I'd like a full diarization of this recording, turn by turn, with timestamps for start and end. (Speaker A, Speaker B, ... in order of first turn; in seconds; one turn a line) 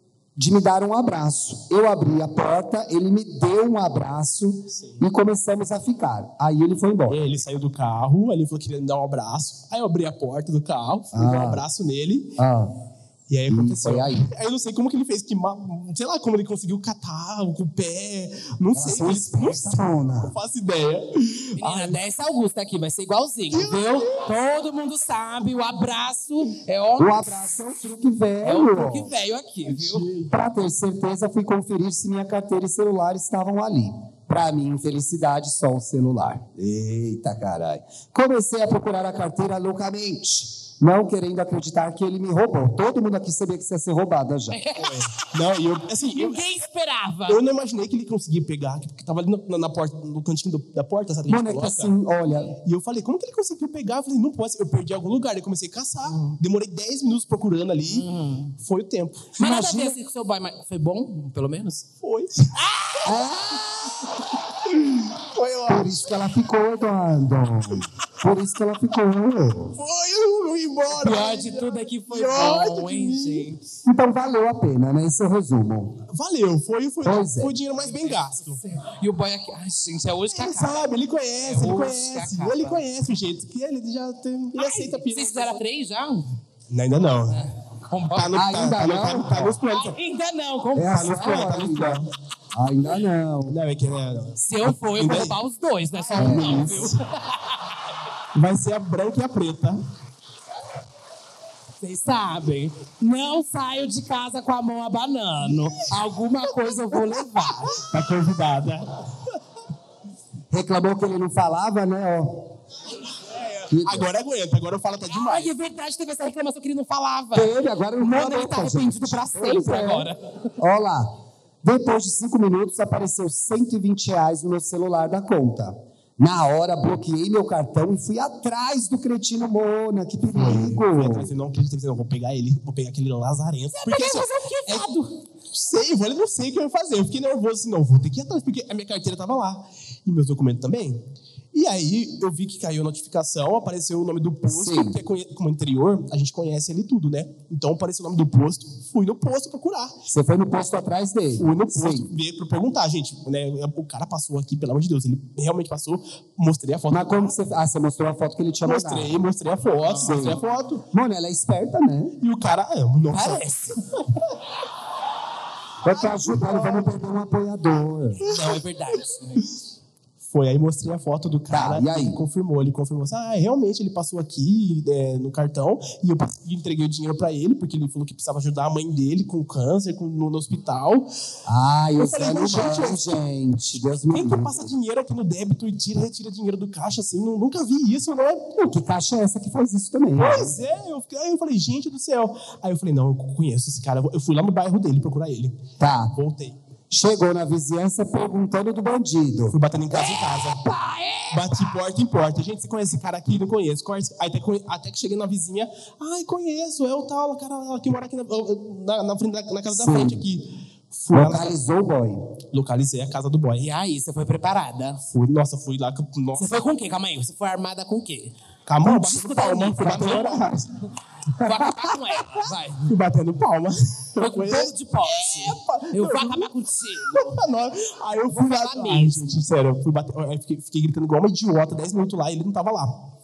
Speaker A: 0.3-7.2
Speaker B: 7.1-12.4
Speaker A: 11.1-11.6
Speaker A: 12.4-12.8
Speaker B: 13.3-22.0
Speaker A: 13.5-14.3
Speaker A: 18.7-20.4
Speaker C: 21.6-27.5
Speaker B: 23.5-24.3
Speaker A: 27.0-29.1
Speaker C: 28.4-30.1
Speaker B: 29.6-30.3
Speaker A: 30.3-44.6
Speaker C: 44.5-45.2
Speaker B: 44.8-46.4
Speaker C: 46.1-47.4
Speaker B: 47.3-51.9
Speaker A: 51.3-52.6
Speaker B: 52.6-59.4
Speaker C: 57.9-58.5
Speaker C: 59.4-61.9
Speaker A: 59.4-60.0
Speaker B: 62.0-62.5
Speaker C: 62.5-63.3
Speaker A: 63.0-64.0
Speaker B: 64.7-66.0
Speaker A: 65.7-69.8
Speaker B: 69.7-73.5
Speaker C: 70.9-73.6
Speaker A: 73.8-76.0
Speaker B: 76.1-78.6
Speaker A: 77.0-77.5
Speaker C: 77.9-80.8
Speaker B: 80.3-85.6
Speaker C: 81.4-82.8
Speaker C: 84.6-86.3
Speaker B: 86.7-87.5
Speaker C: 87.3-88.3
Speaker B: 88.1-90.0
Speaker A: 88.3-89.6
Speaker C: 89.7-91.3
Speaker A: 90.7-93.6
Speaker B: 90.9-92.1
Speaker B: 93.5-95.4
Speaker C: 94.4-97.6
Speaker B: 96.0-97.0
Speaker A: 96.1-96.9
Speaker B: 98.3-99.8
Speaker C: 101.8-107.8
Speaker B: 107.7-109.0
Speaker A: 110.5-112.5
Speaker B: 113.4-115.5
Speaker A: 113.7-114.1
Speaker C: 115.1-120.2
Speaker A: 117.3-131.3
Speaker B: 130.3-134.9
Speaker C: 133.7-135.1
Speaker B: 135.5-150.0
Speaker A: 144.4-145.0
Speaker A: 150.1-152.1
Speaker B: 151.4-157.3
Speaker A: 156.9-159.2
Speaker B: 158.6-160.8
Speaker C: 159.8-160.4
Speaker A: 160.0-162.2
Speaker B: 162.2-163.5
Speaker C: 163.1-163.8
Speaker A: 165.8-168.2
Speaker B: 166.0-166.9
Speaker B: 168.2-168.6
Speaker C: 168.2-169.4
Speaker B: 170.3-181.1
Speaker A: 171.5-172.2
Speaker A: 181.4-184.7
Speaker B: 182.0-183.0
Speaker B: 184.1-188.5
Speaker A: 188.6-190.6
Speaker B: 190.2-196.6
Speaker A: 195.8-196.2
Speaker A: 196.9-199.6
Speaker B: 199.5-200.6
Speaker C: 199.9-201.8
Speaker B: 201.3-211.6
Speaker A: 209.7-210.3
Speaker A: 211.1-212.3
Speaker B: 212.5-213.7
Speaker C: 213.6-215.0
Speaker B: 215.1-216.6
Speaker C: 216.3-220.4
Speaker B: 218.7-220.7
Speaker C: 221.4-222.9
Speaker B: 222.8-226.5
Speaker C: 224.2-227.4
Speaker B: 227.1-233.1
Speaker C: 228.3-229.4